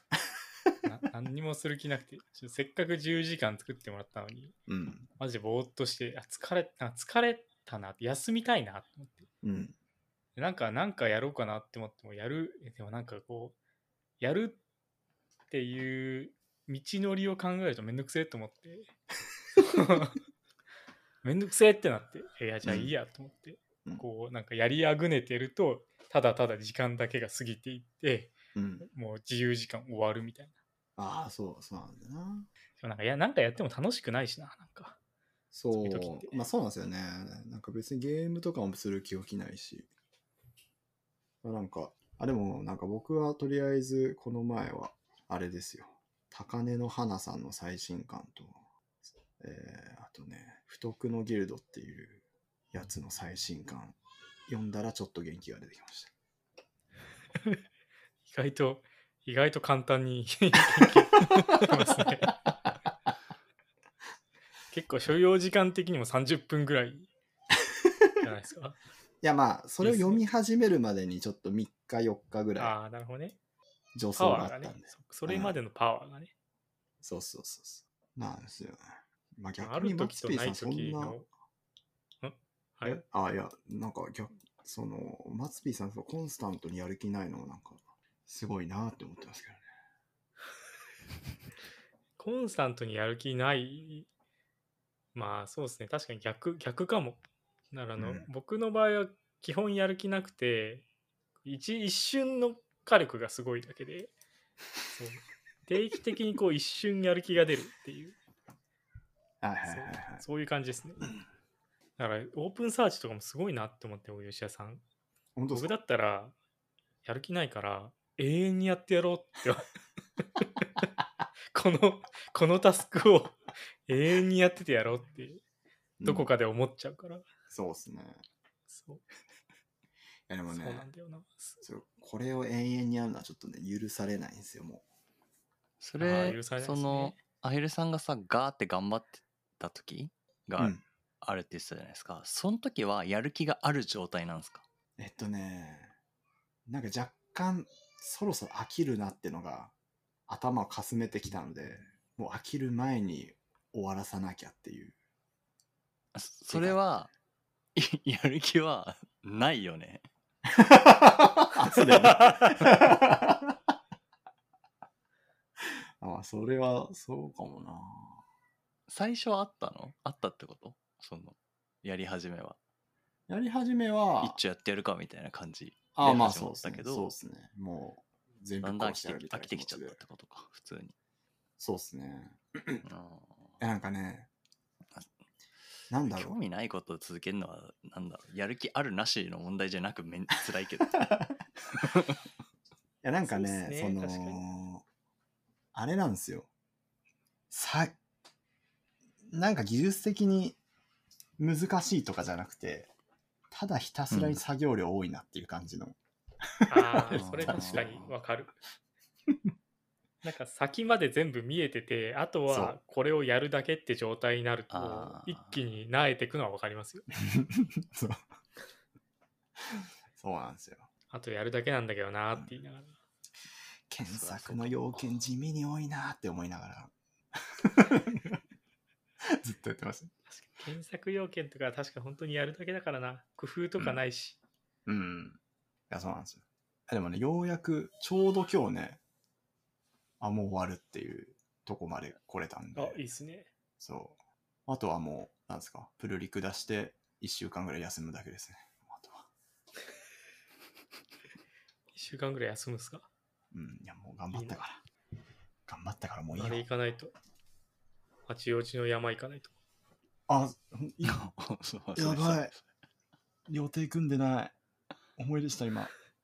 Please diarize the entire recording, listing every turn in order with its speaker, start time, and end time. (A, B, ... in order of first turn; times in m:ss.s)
0:00.8-0:04.5 A
0:04.7-0:05.1 B
0:05.2-0:09.3 A
0:09.4-0:09.8 B
0:10.4-0:13.6 A
0:14.2-0:14.6 A
0:15.5-0:18.9 A
0:19.6-0:20.2 A
0:21.2-0:30.5 A
0:22.6-0:22.9 B
0:28.5-0:28.9 B
0:31.0-0:32.5 B
0:32.8-0:35.0 A
0:35.5-0:39.9 B
0:35.7-0:36.5 A
0:41.4-0:48.6 B
0:49.4-0:56.1 B
0:58.3-1:02.3 A
1:04.7-1:07.1 A
1:07.6-1:08.1 B
1:08.2-1:08.8 A
1:09.2-1:12.7 B
1:09.8-1:10.2 A
1:12.6-1:13.4 A
1:14.0-1:15.6 B
1:14.1-1:16.3 A
1:17.0-1:21.2 B
1:19.6-1:21.3 A
1:22.2-1:23.0 A
1:22.8-1:29.6 B
1:32.2-1:34.1 A
1:35.1-1:40.8 A
1:38.0-1:38.3 B
1:41.4-1:44.1 A
1:44.9-1:48.2 A
1:49.4-1:50.2 B
1:49.6-1:51.1 A
1:52.0-1:54.8 A
1:55.4-1:55.7 B
1:55.5-1:56.3 A
1:57.0-1:59.7 A
2:00.2-2:00.8 A
2:01.5-2:05.4 A
2:06.0-2:06.3 B
2:06.0-2:07.2 A
2:07.5-2:08.2 B
2:08.7-2:09.0 A
2:10.3-2:10.9 B
2:10.5-2:11.6 A
2:11.6-2:14.8 B
2:15.8-2:24.6 C
2:16.0-2:17.2 A
2:25.0-2:25.9 B
2:26.7-2:29.7 B
2:30.3-2:34.9 B
2:36.1-2:37.1 C
2:36.5-2:36.8 B
2:37.7-2:40.0 C
2:40.5-2:43.6 B
2:45.6-2:48.2 B
2:48.9-2:52.6 C
2:53.3-2:54.4 B
2:54.2-2:57.1 C
2:56.0-3:00.0 B
2:58.6-3:00.9 C
3:01.6-3:02.8 B
3:02.8-3:03.6 C
3:03.6-3:04.3 B
3:05.9-3:06.4 B
3:05.9-3:11.2 C
3:11.7-3:12.2 C
3:13.0-3:14.8 B
3:13.2-3:14.4 A
3:15.7-3:16.5 B
3:17.5-3:18.0 B
3:19.3-3:20.6 B
3:21.4-3:22.9 B
3:23.5-3:26.0 B
3:24.1-3:24.4 C
3:26.6-3:28.0 B
3:26.7-3:28.5 A
3:27.1-3:28.0 C
3:30.2-3:37.1 A
3:32.5-3:32.8 B
3:34.7-3:35.6 C
3:37.2-3:38.2 B
3:39.7-3:40.9 B
3:41.1-3:43.0 A
3:43.9-3:48.4 B
3:44.0-3:45.2 C
3:49.2-3:50.1 B
3:50.3-3:54.4 A
3:54.8-3:55.4 B
3:55.9-3:59.0 B
4:00.2-4:03.0 B
4:02.7-4:03.5 A
4:03.8-4:09.3 B
4:11.9-4:13.1 A
4:13.5-4:14.8 B
4:14.3-4:14.6 A
4:15.6-4:16.6 B
4:16.3-4:17.1 A
4:18.3-4:19.5 A
4:20.3-4:21.2 B
4:21.0-4:22.6 C
4:22.0-4:22.5 B
4:23.5-4:24.5 B
4:25.2-4:25.9 B